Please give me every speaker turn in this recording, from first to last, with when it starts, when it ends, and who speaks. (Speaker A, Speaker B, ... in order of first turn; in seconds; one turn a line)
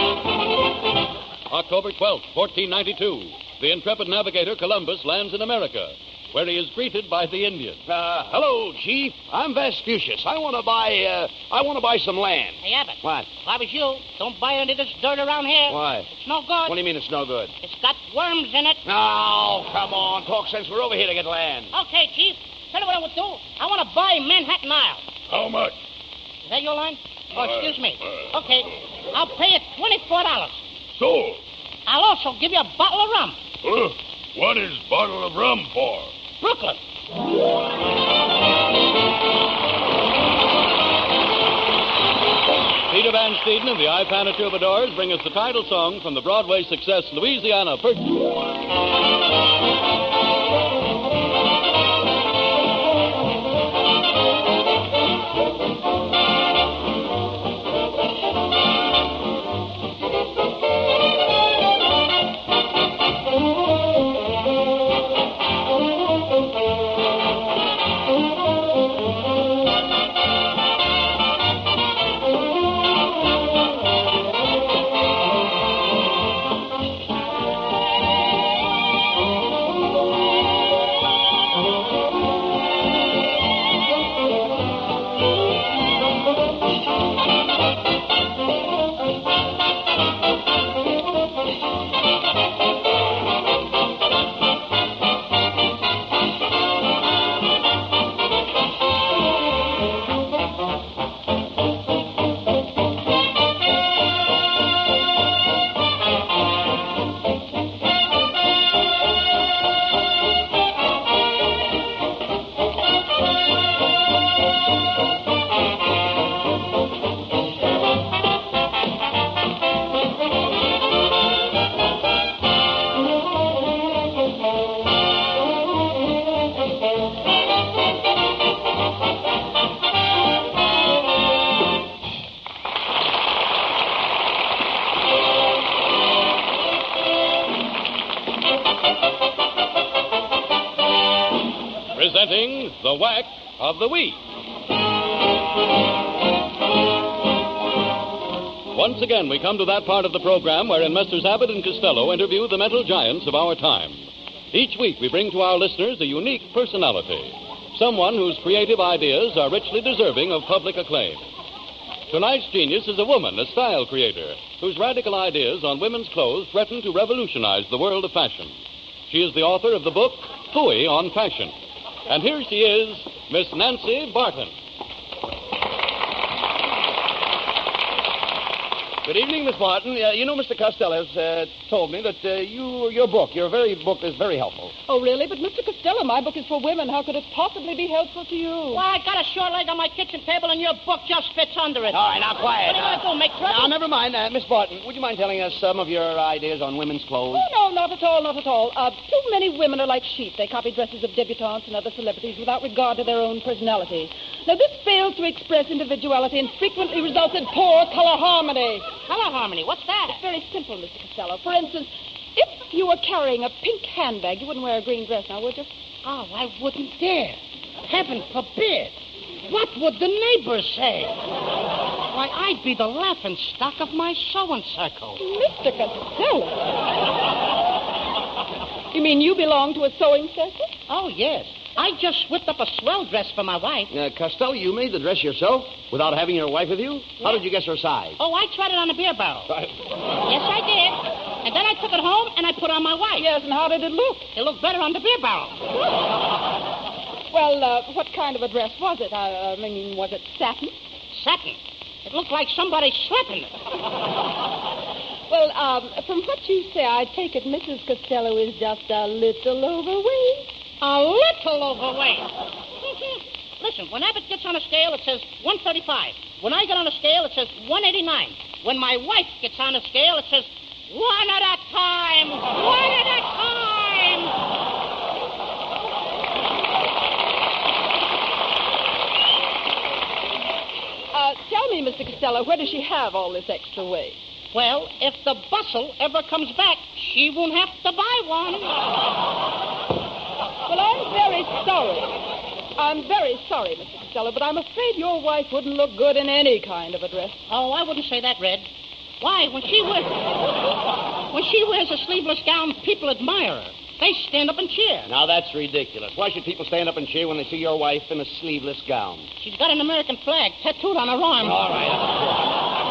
Speaker A: 1.5-7.8
Speaker B: 7.9-13.3
Speaker C: 12.6-16.8
Speaker B: 15.7-16.1
Speaker B: 16.6-17.5
Speaker C: 17.6-18.8
Speaker B: 18.9-21.7
Speaker C: 21.7-25.1
Speaker D: 25.3-25.8
Speaker C: 26.4-30.6
Speaker D: 27.4-28.2
Speaker D: 30.9-31.4
Speaker C: 31.9-33.4
Speaker D: 33.6-36.1
Speaker C: 36.4-36.8
Speaker A: 42.9-48.3
Speaker A: 141.9-144.2
Speaker A: 148.7-161.2
Speaker A: 162.1-171.5
Speaker A: 172.1-174.5
Speaker B: 179.1-184.7
Speaker E: 184.9-188.8
Speaker C: 188.7-192.0
Speaker B: 191.9-197.5
Speaker C: 192.6-193.7
Speaker E: 197.3-208.9
Speaker C: 209.1-210.2
Speaker E: 210.1-215.7
Speaker C: 216.0-221.2
Speaker C: 222.1-225.2
Speaker E: 225.2-226.8
Speaker E: 228.9-230.7
Speaker C: 230.9-233.9
Speaker B: 233.9-238.2
Speaker C: 238.2-239.5
Speaker B: 239.5-239.7
Speaker C: 240.2-243.3
Speaker E: 243.2-244.3
Speaker C: 244.3-245.6
Speaker E: 247.3-250.8
Speaker C: 251.1-253.5
Speaker E: 255.3-260.5
Speaker C: 260.8-262.3
Speaker C: 262.9-274.4
Speaker E: 281.1-284.2
Speaker C: 284.5-288.8
Speaker E: 290.7-292.1
Speaker E: 292.8-297.4
Speaker C: 297.5-298.7
Speaker C: 299.2-300.3
Speaker C: 301.3-305.1
Speaker B: 305.1-309.3
Speaker C: 309.4-311.6
Speaker B: 311.4-312.4